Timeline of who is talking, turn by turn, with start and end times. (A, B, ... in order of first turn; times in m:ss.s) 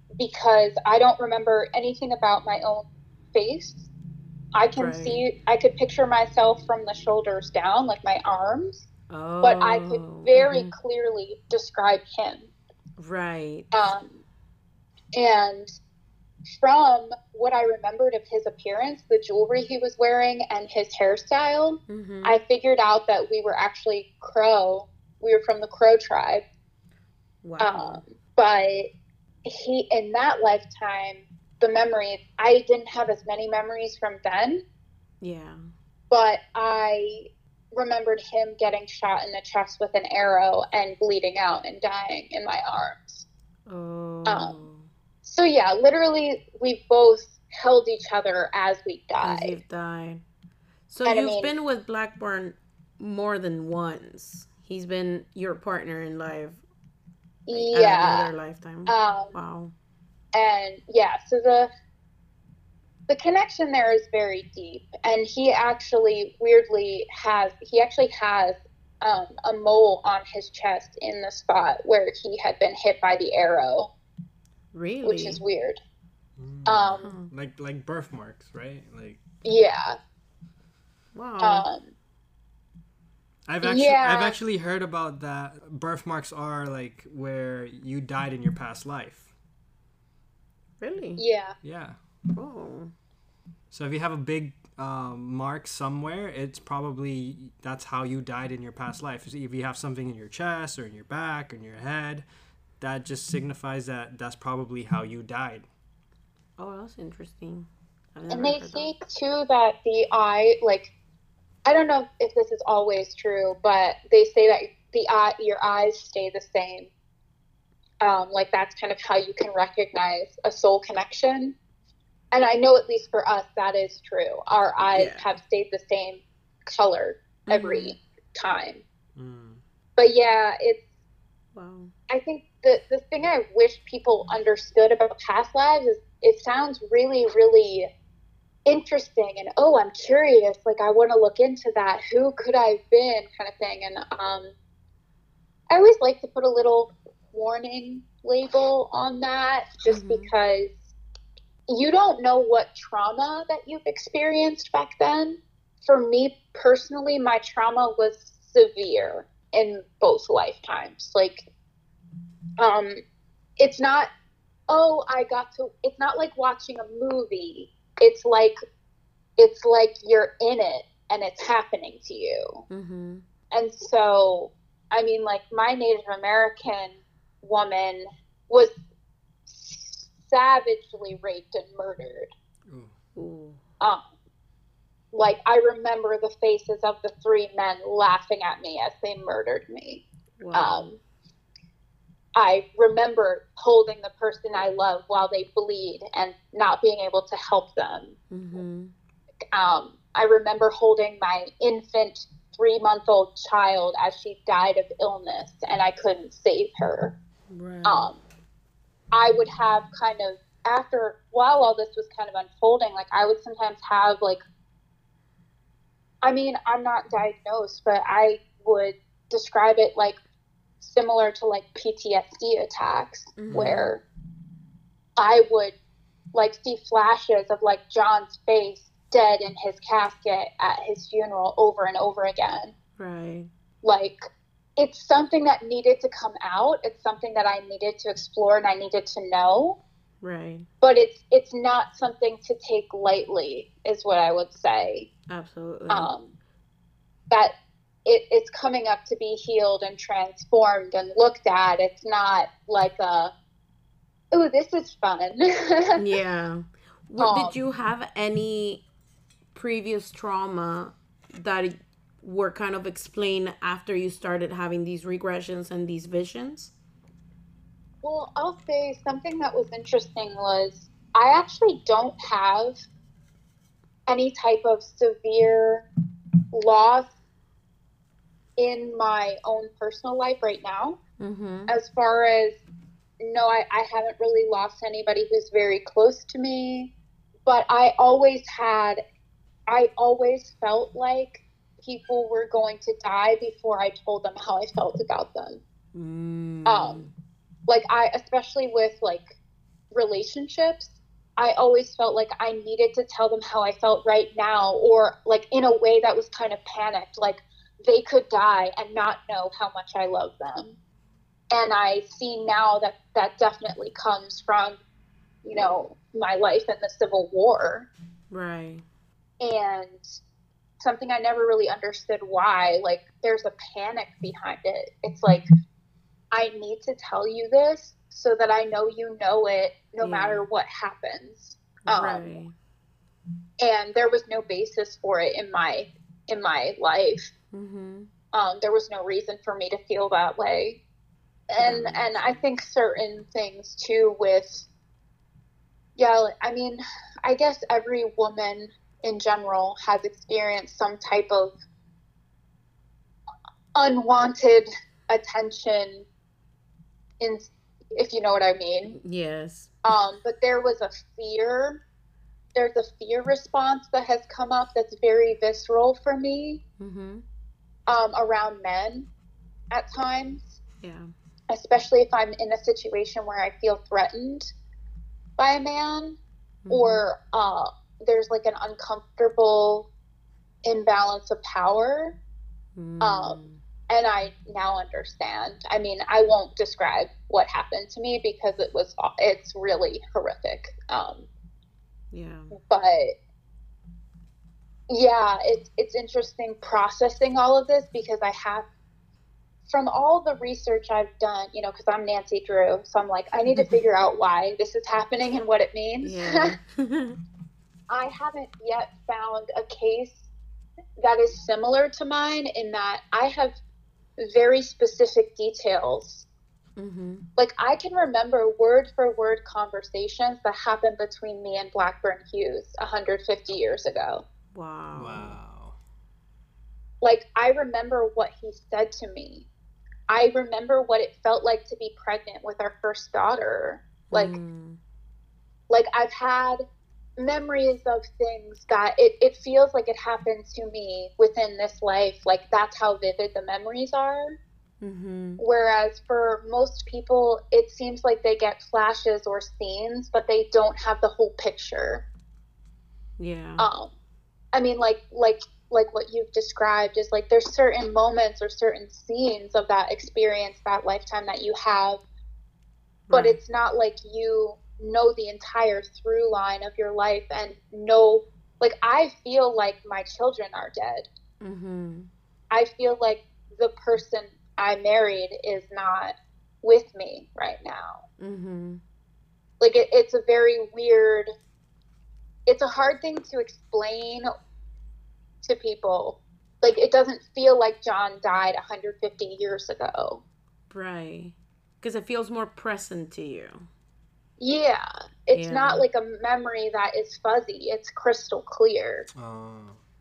0:00.2-0:03.9 A
0:04.5-0:08.9 A
0:04.8-0:05.2 B
0:09.1-0:10.7 B
0:09.4-0:12.5 A
0:13.0-0:13.7 B
0:13.7-0:14.2 A
0:15.1-0:15.7 A
0:16.6-0:26.4 A
0:21.9-0:22.4 B
0:27.4-0:28.0 B
0:27.6-0:28.9 A
0:29.4-0:34.6 A
0:35.2-0:35.6 B
0:36.1-0:43.2 A
0:43.7-0:44.9 B
0:44.2-0:44.6 A
0:45.2-0:49.6 A
0:49.2-0:50.2 B
0:50.9-0:56.6 B
0:51.0-0:51.5 A
0:57.5-0:58.3 A
0:57.5-0:59.7 B
0:58.9-0:59.4 A
1:00.3-1:01.7 A
1:03.1-1:13.9 A
1:14.7-1:15.4 B
1:15.0-1:15.8 A
1:16.4-1:19.2 C
1:16.6-1:17.1 A
1:17.0-1:17.3 B
1:19.4-1:20.0 A
1:21.1-1:21.7 B
1:21.4-1:21.9 A
1:23.5-1:29.3 C
1:23.6-1:24.4 A
1:30.8-1:31.2 B
1:31.2-1:31.5 A
1:31.6-1:32.0 C
1:32.3-1:32.9 B
1:33.7-1:42.2 C
1:42.8-1:45.7 C
1:46.6-1:48.9 B
1:48.3-1:50.9 A
1:51.6-1:56.9 A
1:58.0-2:01.5 A
2:02.3-2:08.8 A
2:04.9-2:05.2 B
2:07.5-2:08.0 B
2:09.2-2:09.6 C
2:10.0-2:10.8 A
2:11.5-2:11.9 B
2:12.1-2:17.9 A
2:18.6-2:24.5 A
2:25.7-2:30.9 A
2:29.9-2:30.3 B
2:31.7-2:41.4 A
2:42.6-2:43.0 A
2:43.6-2:44.1 A
2:44.7-2:48.6 A
2:49.4-2:52.6 A
2:52.7-2:53.2 B
2:53.5-2:58.7 A
2:59.4-3:02.3 A
3:02.7-3:02.9 C
3:03.1-3:03.6 B
3:03.8-3:04.0 A
3:05.1-3:11.0 A
3:10.4-3:10.9 B
3:12.3-3:18.2 A
3:18.3-3:18.9 B
3:19.5-3:27.1 A
3:27.5-3:28.1 B
3:27.8-3:28.2 A
3:29.1-3:34.4 A
3:36.2-3:40.2 A
3:40.8-3:44.0 A
3:43.4-3:43.9 B
3:45.2-3:45.7 A
3:46.3-3:52.7 A
3:53.0-3:53.5 B
3:53.8-3:54.2 A
3:54.8-3:59.8 A
4:00.2-4:00.6 B
4:00.8-4:05.1 A
4:05.3-4:06.1 B
4:05.9-4:06.3 A
4:08.0-4:13.3 A
4:14.3-4:16.0 A
4:16.0-4:18.8 B
4:17.2-4:17.6 A
4:19.5-4:26.7 B
4:28.0-4:32.8 A
4:34.1-4:35.8 A
4:36.5-4:37.1 A
4:38.6-4:41.0 A
4:41.2-4:41.7 B
4:41.7-4:42.6 A
4:43.2-4:46.9 A
4:47.4-4:49.0 A
4:49.7-4:55.6 A
4:55.9-4:57.1 B
4:56.6-4:57.0 A
4:57.7-4:59.4 A
4:59.9-5:10.8 A
5:11.5-5:14.8 A
5:15.4-5:17.9 A
5:18.3-5:18.8 B
5:19.4-5:20.1 A
5:20.8-5:25.5 A
5:26.3-5:32.4 A
5:30.0-5:30.4 B
5:31.9-5:32.5 B
5:33.6-5:37.3 A
5:37.5-5:38.1 B
5:38.3-5:40.8 A
5:41.5-5:44.6 A
5:41.6-5:42.4 B
5:46.0-5:51.6 A
5:53.7-5:56.0 A
5:57.2-5:59.0 A
5:58.9-5:59.7 B
5:59.8-6:01.8 A
6:02.5-6:06.6 A
6:06.8-6:07.2 B
6:07.9-6:09.1 A
6:09.7-6:10.6 A
6:10.8-6:11.1 B
6:11.5-6:14.5 A
6:15.4-6:16.2 A
6:16.6-6:17.0 B
6:16.7-6:19.9 A
6:20.6-6:22.1 A
6:22.8-6:23.6 B
6:23.0-6:31.3 A
6:32.1-6:32.5 B
6:32.6-6:33.1 A
6:34.9-6:38.6 A
6:39.7-6:46.6 A
6:43.5-6:43.8 B
6:46.0-6:47.2 B
6:47.9-6:50.3 A
6:51.0-6:53.6 A
6:54.2-6:56.2 A
6:56.8-6:57.2 B
6:57.4-7:04.2 A
7:04.5-7:05.4 B
7:05.0-7:05.8 C
7:07.0-7:09.5 A
7:10.1-7:14.4 A
7:14.1-7:14.8 B
7:15.7-7:16.6 A
7:17.2-7:24.4 A
7:24.8-7:25.4 B
7:25.4-7:32.0 A
7:33.2-7:33.7 B
7:33.6-7:33.9 A
7:34.5-7:42.0 A
7:43.1-7:43.4 B
7:43.1-7:51.1 A
7:51.4-7:52.1 B
7:52.5-7:58.0 A
7:58.2-7:58.8 B
7:59.6-8:01.3 A
8:02.4-8:04.3 A
8:05.4-8:10.2 A
8:10.7-8:13.7 B
8:14.4-8:19.1 A
8:15.3-8:15.8 B
8:19.1-8:19.8 C